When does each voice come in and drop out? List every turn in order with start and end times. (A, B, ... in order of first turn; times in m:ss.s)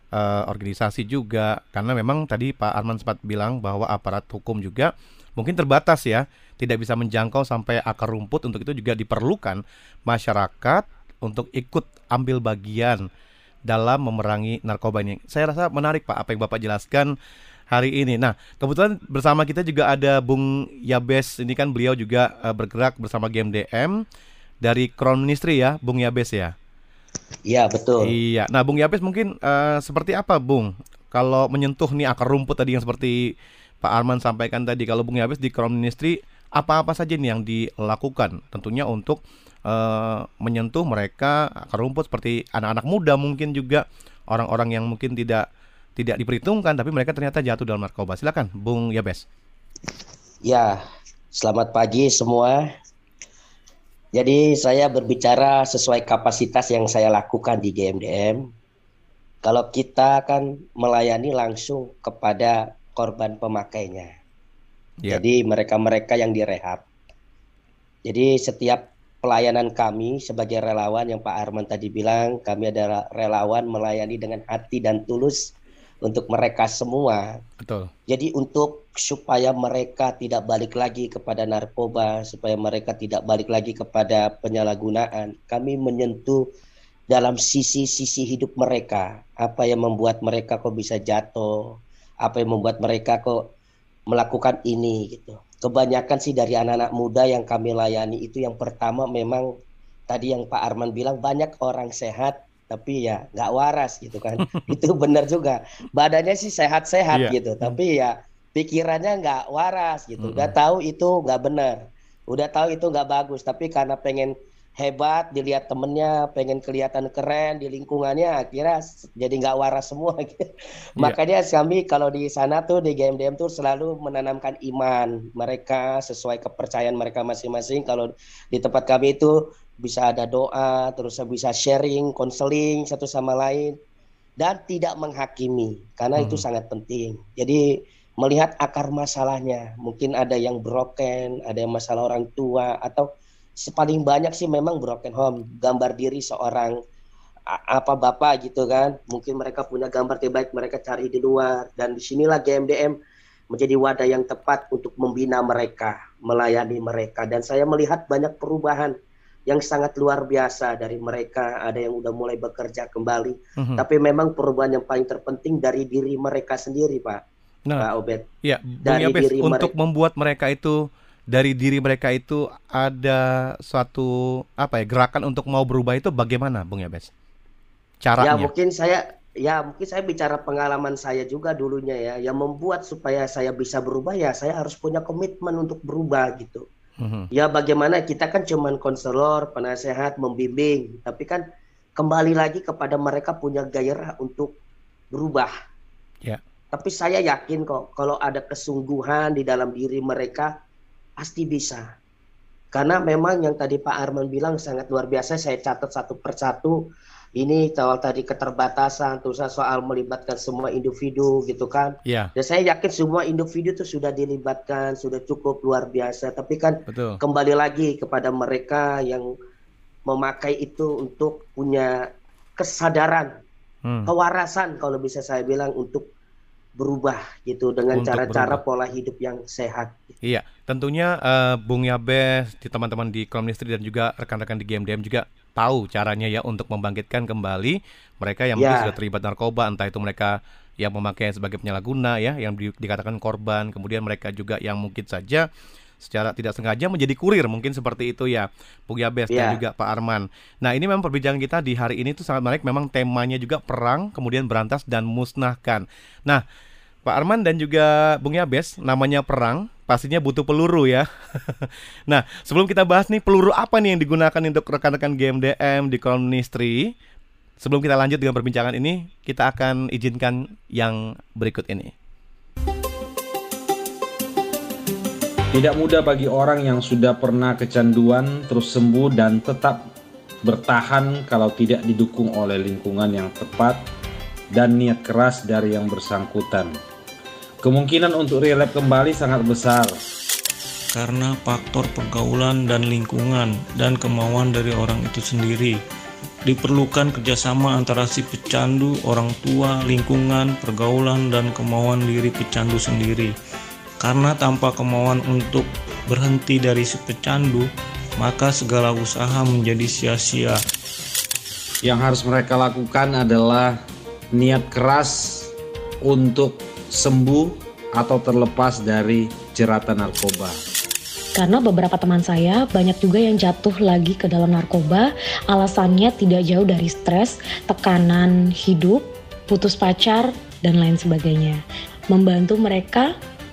0:00.1-0:13.0 A
0:13.7-0:17.1 A
0:17.7-0:24.0 A
0:24.6-0:26.5 A
0:27.5-0:28.1 B
0:28.0-0:45.4 A
0:46.0-0:49.2 A
0:50.4-0:50.8 B
0:51.3-0:52.7 B
0:54.1-0:58.5 B
0:59.4-1:04.1 B
1:05.1-1:06.8 B
1:08.0-1:17.4 B
1:17.6-1:17.9 A
1:18.1-1:26.5 B
1:27.1-1:33.4 B
1:34.1-1:39.5 B
1:40.1-1:51.8 B
1:44.4-1:44.7 A
1:47.1-1:47.8 A
1:50.2-1:50.5 A
1:52.3-2:00.4 B
2:01.0-2:13.8 B
2:14.4-2:26.8 B
2:16.2-2:16.4 A
2:27.5-2:33.0 B
2:33.5-2:38.9 B
2:39.5-2:47.2 B
2:43.6-2:43.8 A
2:47.8-2:48.2 B
2:48.4-2:57.1 A
2:48.8-2:49.7 B
2:58.0-2:58.5 A
2:58.2-3:06.6 B
3:07.0-3:07.3 A
3:07.3-3:11.4 B
3:12.0-3:14.6 B
3:15.1-3:15.5 B
3:16.7-3:20.5 B
3:21.2-3:21.9 B
3:22.7-3:26.8 B
3:27.4-3:39.3 B
3:32.0-3:32.3 A
3:36.9-3:37.2 A
3:40.1-3:42.0 B
3:42.6-3:43.3 B
3:43.8-3:44.1 A
3:44.1-3:46.1 B
3:46.8-3:50.1 B
3:47.9-3:48.6 A
3:50.2-4:05.4 A
3:58.6-3:58.9 B
4:06.0-4:16.4 A
4:09.3-4:09.6 B
4:17.0-4:26.9 A
4:27.6-4:31.9 A
4:35.5-4:39.9 C
4:40.4-4:43.8 C
4:44.5-4:46.8 C
4:47.6-4:50.0 C
4:50.9-4:55.8 D
4:56.4-5:03.3 D
5:04.0-5:10.6 D
5:11.8-5:13.8 C
5:14.3-5:20.6 C
5:21.3-5:33.2 E